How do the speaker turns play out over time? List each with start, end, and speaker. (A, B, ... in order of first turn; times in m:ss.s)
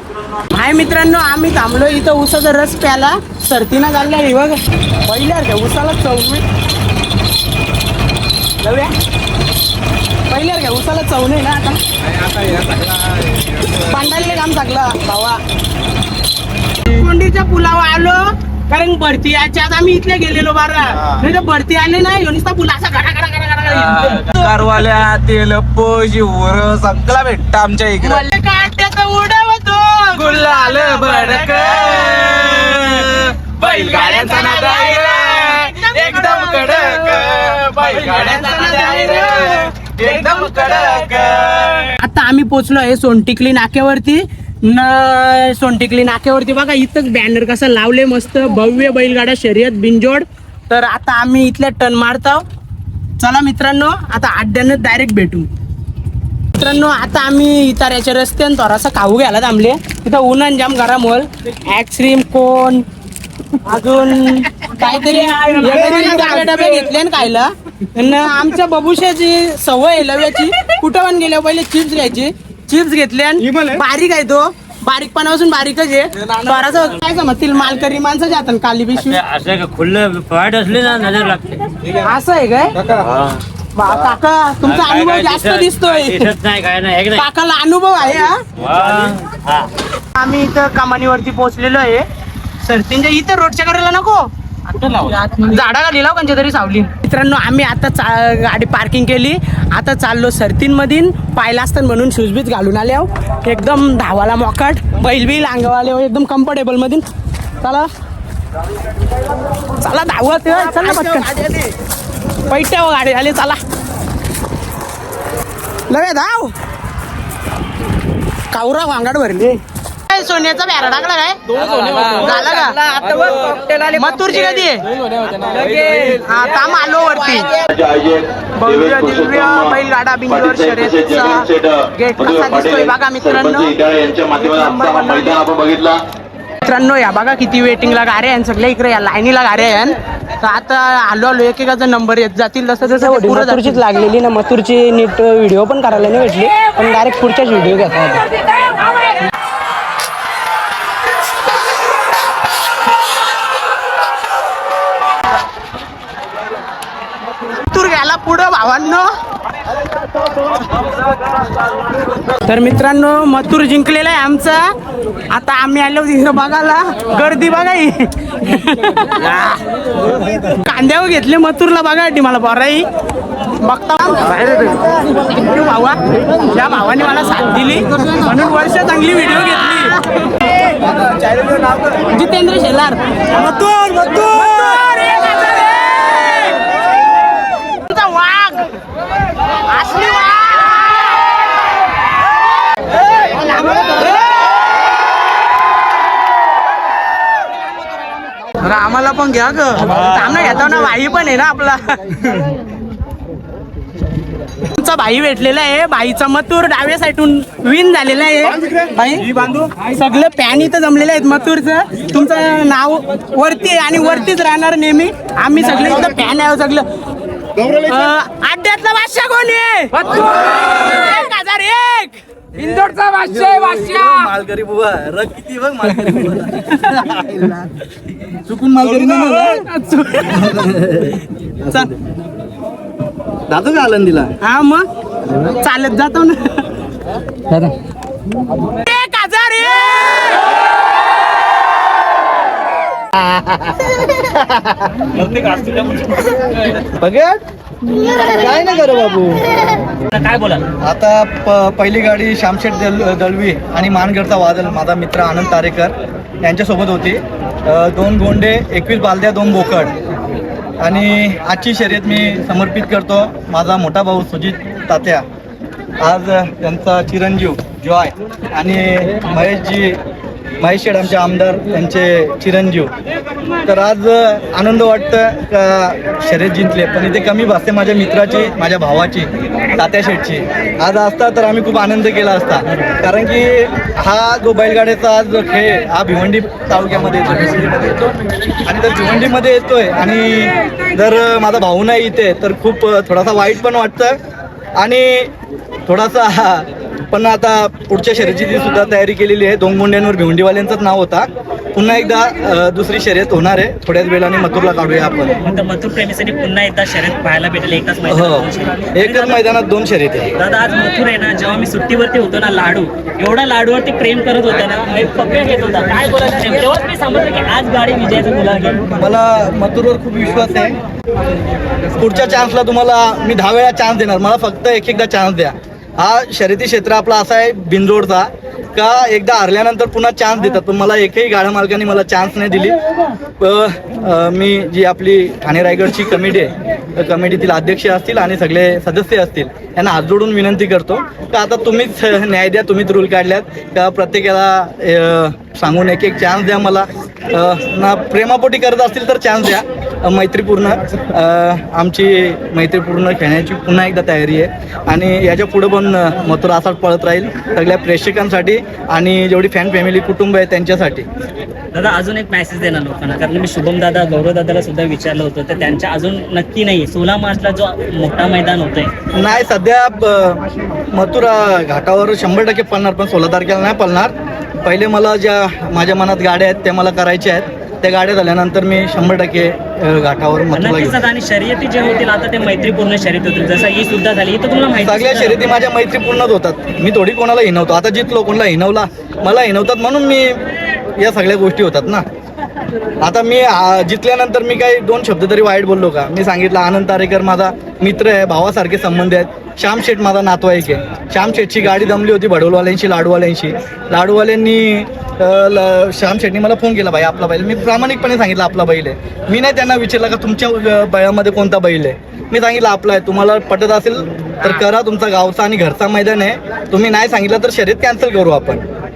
0:00.5-0:06.4 A
0:08.6-0:08.9 A
0:10.3-0:11.8 A
0:12.2-0:12.8 B
0:13.7-0:15.4 A
0:16.8-0:24.5 A
0:23.8-0:28.2 B
0:28.0-0:32.4 A
0:30.2-0:39.3 B
0:33.6-0:37.3 A
0:37.9-0:40.8 A
0:40.0-0:41.9 B
0:42.0-0:52.4 A
0:53.2-0:55.5 A
0:56.5-1:02.8 A
1:03.6-1:19.2 A
1:19.1-1:21.6 C
1:21.9-1:22.7 A
1:23.7-1:26.4 A
1:24.7-1:27.2 C
1:27.1-1:28.4 A
1:28.6-1:29.2 C
1:30.1-1:32.0 A
1:32.6-1:47.0 A
1:47.6-1:47.9 A
1:49.8-1:51.7 A
1:52.5-1:53.6 A
1:55.9-1:56.5 A
1:58.5-2:04.8 A
2:05.5-2:07.6 A
2:07.7-2:08.3 D
2:08.6-2:15.4 A
2:08.9-2:09.6 D
2:10.9-2:11.7 D
2:13.4-2:16.0 D
2:16.6-2:28.2 A
2:37.6-2:39.1 A
2:42.3-2:44.7 A
2:45.3-2:49.5 A
2:50.5-2:52.8 A
2:53.6-3:00.0 A
3:01.9-3:06.7 A
3:07.6-3:08.7 A
3:09.7-3:11.4 A
3:13.2-3:14.2 A
3:19.6-3:22.4 A
3:24.6-3:36.8 A
3:37.6-3:44.2 A
3:43.2-3:47.7 E
3:48.4-3:49.6 E
3:48.9-3:50.6 A
3:50.3-3:51.9 E
3:53.5-3:54.3 E
3:54.4-3:54.8 A
3:55.4-3:56.7 A
3:58.6-4:00.5 A
4:03.3-4:03.7 E
4:05.1-4:06.6 F
4:07.0-4:07.4 E
4:07.9-4:09.5 E
4:10.1-4:10.7 F
4:10.8-4:19.9 E
4:20.8-4:25.2 E
4:26.0-4:30.0 E
4:30.6-4:32.9 E
4:33.6-4:47.9 E
4:48.6-4:54.2 E
4:54.8-4:55.3 E
4:55.9-5:05.4 E
5:05.4-5:09.4 F
5:08.1-5:10.3 E
5:10.4-5:18.9 F
5:18.9-5:20.8 E
5:22.0-5:32.8 E
5:33.4-6:01.1 E
6:01.7-6:08.9 F
6:09.1-6:14.1 E
6:14.6-6:21.0 E
6:20.5-6:25.4 F
6:24.8-6:30.4 E
6:31.0-6:32.0 E
6:33.0-6:58.6 E